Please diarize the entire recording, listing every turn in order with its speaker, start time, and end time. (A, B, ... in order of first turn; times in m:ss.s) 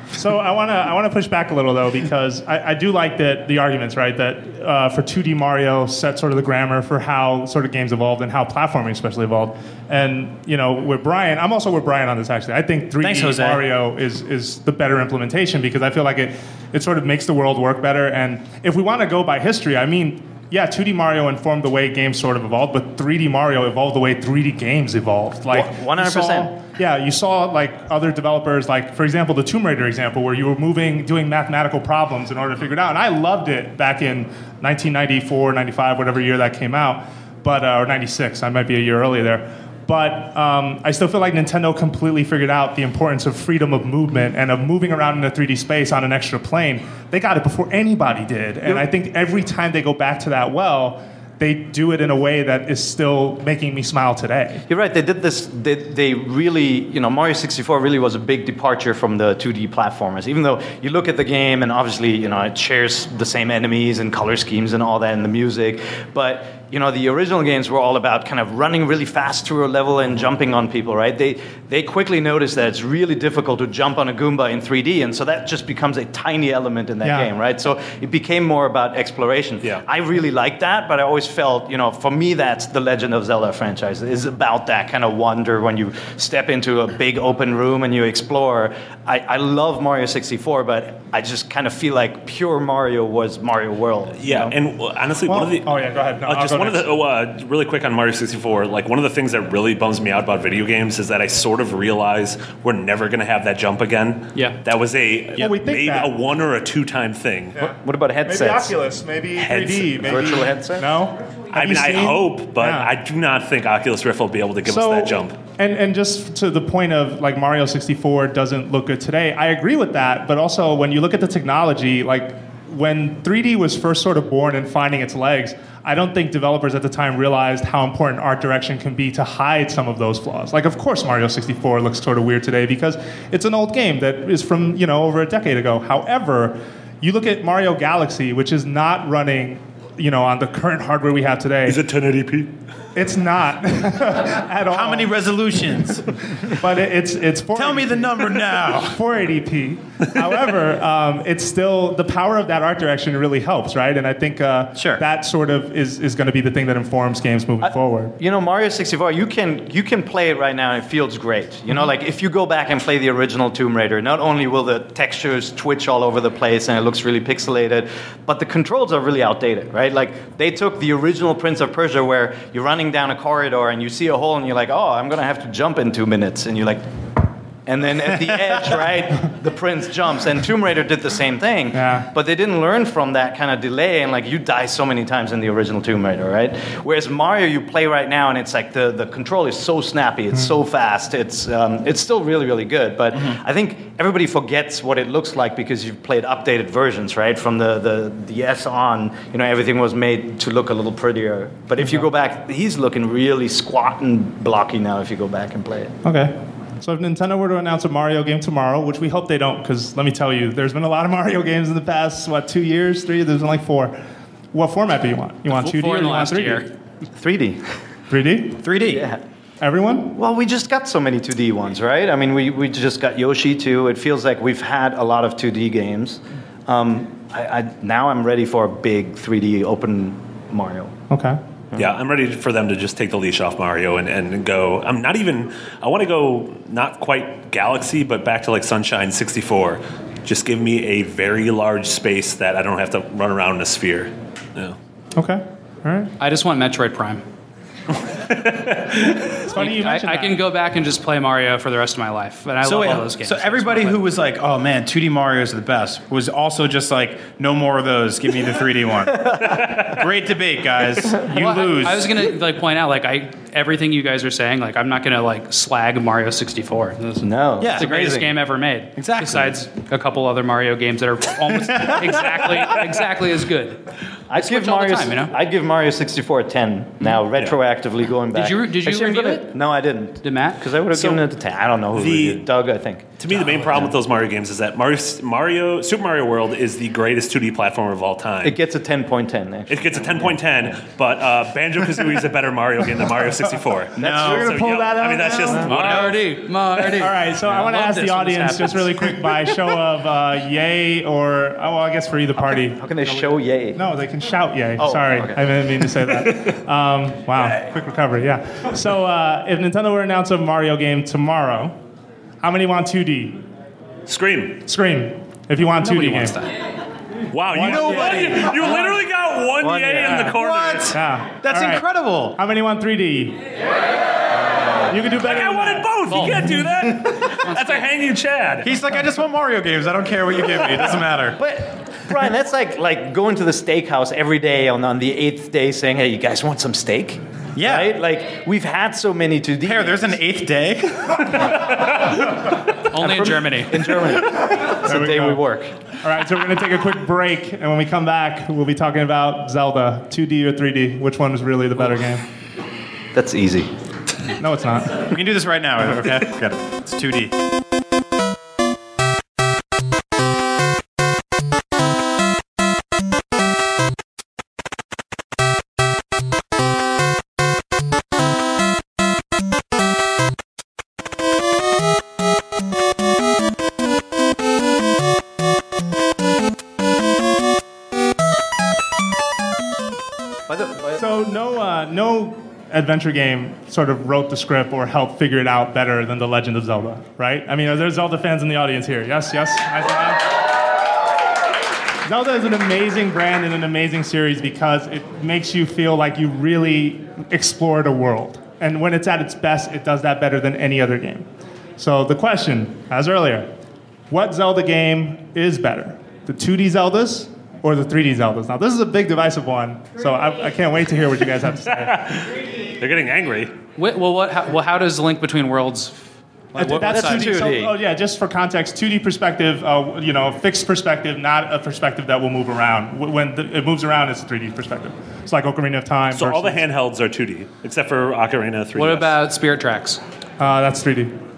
0:00.1-0:54.6 A
0:13.0-0:13.7 B
0:25.5-0:26.5 C
0:54.7-1:34.5 C
1:17.0-1:17.3 A
1:34.2-1:47.6 D
1:35.2-1:36.9 A
1:45.4-1:46.1 A
1:47.6-1:48.7 C
1:48.2-1:52.9 A
1:49.4-1:50.3 D
1:50.0-1:50.9 C
1:51.5-1:55.4 D
1:54.6-2:21.8 A
2:21.7-2:22.5 D
2:22.9-2:25.1 A
2:24.7-2:26.1 B
2:26.5-2:38.1 A
2:27.5-2:29.0 B
2:34.7-2:35.0 B
2:37.6-2:56.8 C
2:57.6-3:26.0 C
3:01.7-3:02.1 A
3:26.0-3:33.9 A
3:34.5-3:36.6 A
3:35.5-3:36.7 E
3:37.2-3:37.6 C
3:38.1-3:38.6 A
3:38.6-3:39.1 B
3:38.8-3:39.2 C
3:39.6-3:40.2 A
3:40.1-3:50.9 C
3:51.1-3:51.4 A
3:51.8-4:04.8 D
4:05.1-4:06.1 A
4:06.2-4:07.2 E
4:08.3-4:09.2 D
4:09.3-4:10.4 A
4:09.5-4:14.0 E
4:12.6-4:22.2 B
4:21.3-4:33.8 E
4:27.2-4:28.3 C
4:27.6-4:28.3 B
4:29.0-4:29.5 B
4:31.7-4:32.6 B
4:34.3-4:43.1 C
4:34.3-4:35.3 E
4:38.3-4:39.5 E
4:40.2-4:40.6 E
4:40.9-4:41.2 D
4:41.9-4:42.5 D
4:43.2-4:48.6 D
4:48.4-4:50.8 C
4:49.7-4:56.4 D
4:54.0-4:54.6 B
4:54.0-4:55.7 A
4:55.7-4:59.1 E
4:55.8-4:56.1 B
4:56.9-5:02.8 A
5:02.4-5:03.8 C
5:03.8-5:11.7 A
5:04.8-5:05.4 C
5:12.4-5:13.4 A
5:14.1-5:14.6 D
5:14.6-5:16.4 A
5:15.8-5:16.5 E
5:17.3-5:21.0 D
5:17.5-5:18.4 A
5:17.6-5:18.5 B
5:19.6-5:20.3 C
5:20.0-5:20.3 A
5:20.2-5:22.4 B
5:20.9-5:21.8 A
5:22.3-5:23.4 A
5:24.9-5:26.2 A
5:25.2-5:28.7 D
5:26.1-5:26.5 E
5:27.4-5:27.8 E
5:28.6-5:31.4 B
5:31.4-5:40.2 C
5:37.5-5:38.0 B
5:39.6-5:41.4 B
5:42.9-5:44.0 E
5:43.0-5:45.7 C
5:44.8-5:45.4 A
5:46.0-5:52.2 A
5:53.1-5:53.7 C
5:54.4-5:55.0 A
5:55.1-5:57.3 B
6:20.5-6:21.0 C
6:21.0-6:30.2 A
6:32.0-6:41.2 A
6:41.8-6:43.5 A
6:44.1-6:52.0 A
6:51.7-6:53.6 D
6:53.8-6:56.0 E
6:56.6-6:57.7 C
6:56.6-7:06.6 A
6:56.6-6:57.3 E
7:06.1-7:09.1 D
7:08.7-7:10.0 E
7:10.4-7:11.1 A